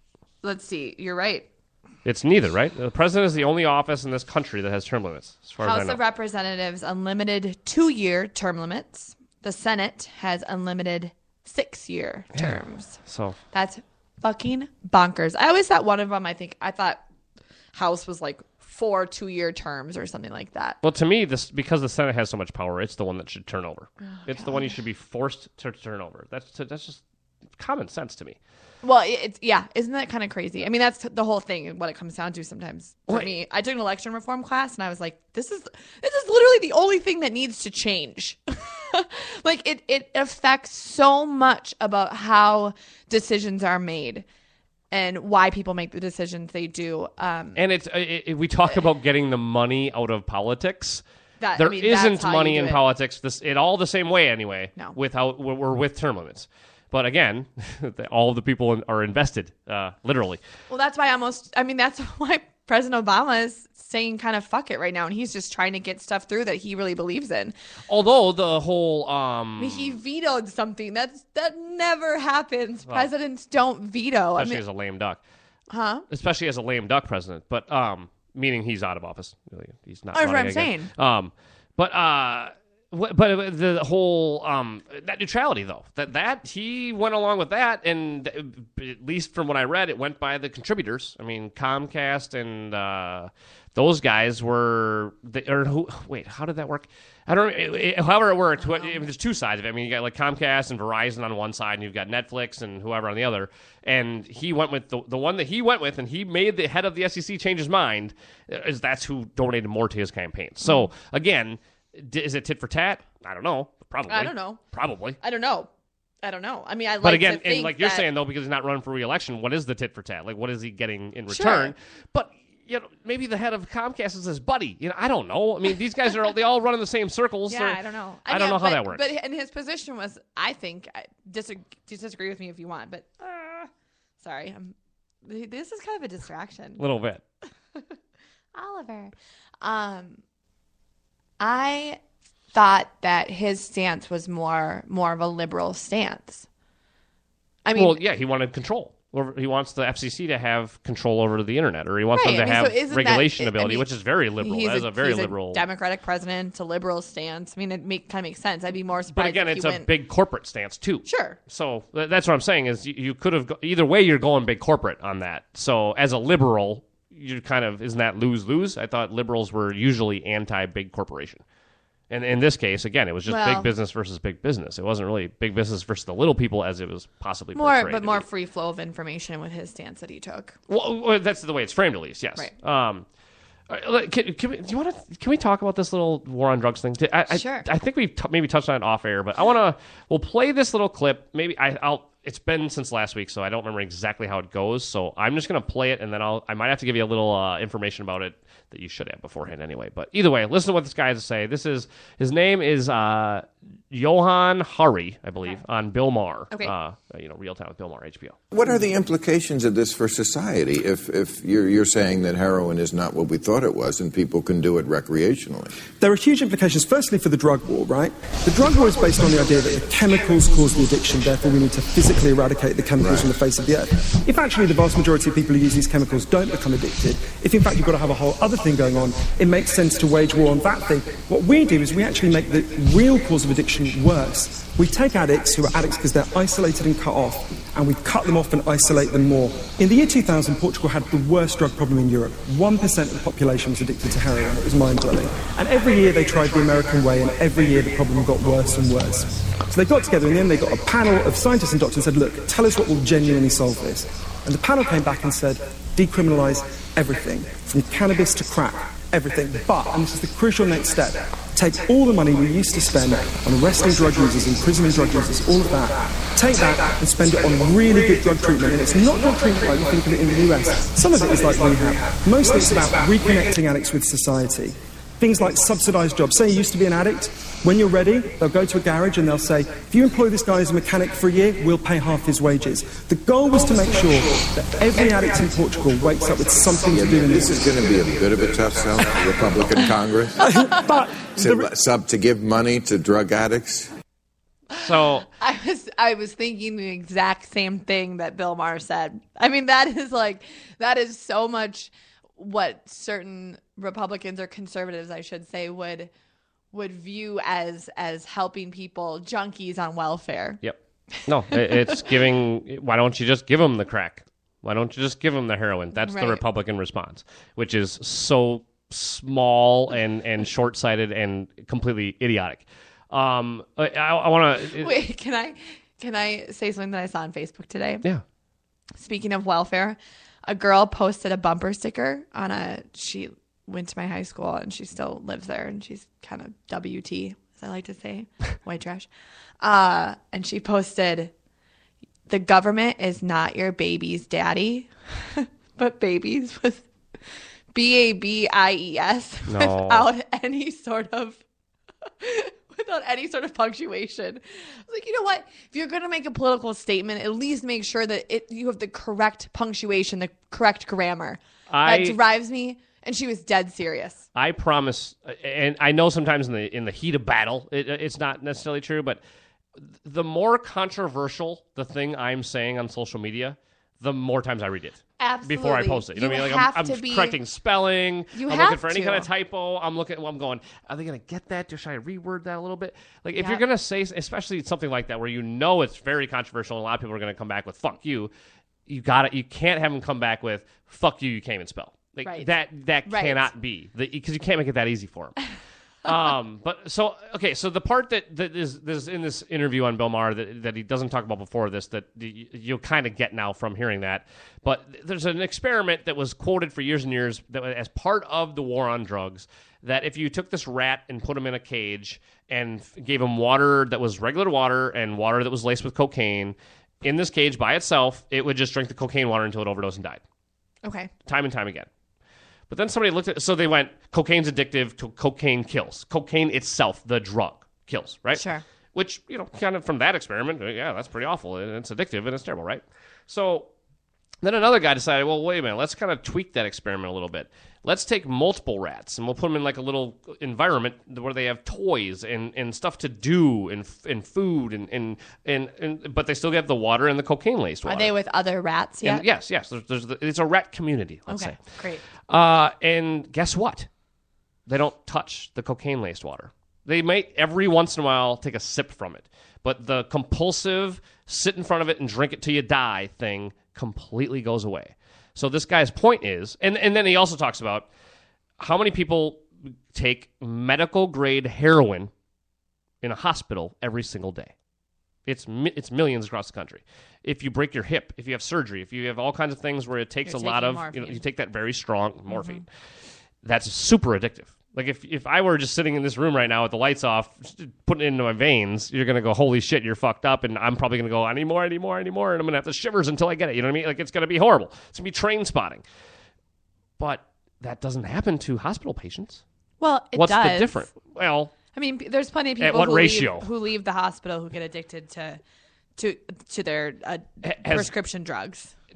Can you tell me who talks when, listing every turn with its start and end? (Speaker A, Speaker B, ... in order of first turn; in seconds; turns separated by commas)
Speaker A: 0.4-1.5, Speaker B: 2.0-6.0, Speaker A: 5.6-13.0, Speaker B: 12.3-13.4, Speaker A: 13.5-17.0, Speaker A: 17.7-20.8, Speaker B: 20.8-27.0, Speaker A: 24.1-24.7, Speaker B: 27.6-28.4, Speaker A: 28.8-44.2, Speaker A: 44.9-47.6, Speaker B: 47.5-51.0, Speaker A: 51.4-52.8, Speaker B: 51.6-60.4, Speaker A: 60.7-67.5, Speaker B: 67.9-70.0, Speaker A: 69.6-74.6, Speaker B: 74.4-75.2, Speaker A: 75.7-76.1, Speaker B: 76.1-115.2, Speaker A: 80.1-80.9, Speaker A: 98.6-99.1, Speaker A: 114.1-114.6, Speaker A: 115.2-115.7, Speaker A: 116.2-118.1, Speaker B: 117.0-129.1, Speaker A: 121.3-121.7, Speaker A: 127.5-136.8, Speaker B: 136.8-137.2, Speaker A: 138.6-140.2, Speaker A: 141.4-142.0, Speaker A: 142.5-146.5, Speaker A: 147.6-148.0, Speaker B: 147.8-155.6, Speaker A: 152.1-153.9, Speaker A: 154.4-159.9, Speaker B: 159.1-171.4, Speaker A: 161.1-161.4, Speaker B: 172.1-178.2, Speaker A: 173.3-173.7, Speaker A: 177.6-180.6, Speaker B: 180.7-183.1, Speaker B: 183.7-208.4, Speaker A: 187.3-187.7, Speaker C: 208.5-215.8, Speaker D: 216.0-287.8, Speaker C: 223.0-223.3, Speaker C: 286.9-290.6, Speaker D: 290.4-291.7, Speaker C: 291.4-293.9, Speaker B: 294.8-295.3, Speaker A: 294.8-306.1, Speaker A: 306.7-310.6, Speaker B: 310.6-324.9, Speaker A: 311.5-312.0, Speaker A: 316.0-316.4, Speaker A: 324.8-328.1, Speaker A: 329.0-339.1, Speaker A: 339.6-341.3, Speaker A: 342.3-346.9, Speaker A: 347.7-351.4, Speaker B: 349.5-350.1, Speaker A: 352.2-364.2, Speaker B: 361.7-362.2, Speaker B: 364.4-369.2, Speaker B: 369.8-388.3, Speaker A: 375.2-377.4, Speaker A: 378.3-379.3, Speaker A: 383.4-383.6, Speaker B: 388.9-395.4, Speaker A: 392.2-392.5, Speaker A: 393.1-393.5, Speaker B: 396.0-420.2, Speaker A: 420.8-421.1, Speaker B: 421.2-421.9, Speaker B: 422.7-433.7, Speaker A: 428.4-428.6, Speaker B: 434.4-448.1, Speaker A: 447.9-449.2, Speaker B: 449.0-451.6, Speaker A: 451.3-452.0, Speaker B: 452.2-453.9, Speaker B: 454.7-467.9, Speaker B: 468.6-472.1, Speaker B: 473.0-474.5, Speaker B: 475.3-482.7, Speaker A: 480.3-481.2, Speaker A: 482.3-482.6, Speaker B: 483.4-495.8, Speaker B: 497.0-499.4, Speaker A: 499.8-500.9, Speaker B: 500.1-501.5, Speaker A: 501.7-505.4, Speaker B: 502.6-503.5, Speaker A: 506.0-508.7, Speaker B: 507.4-507.9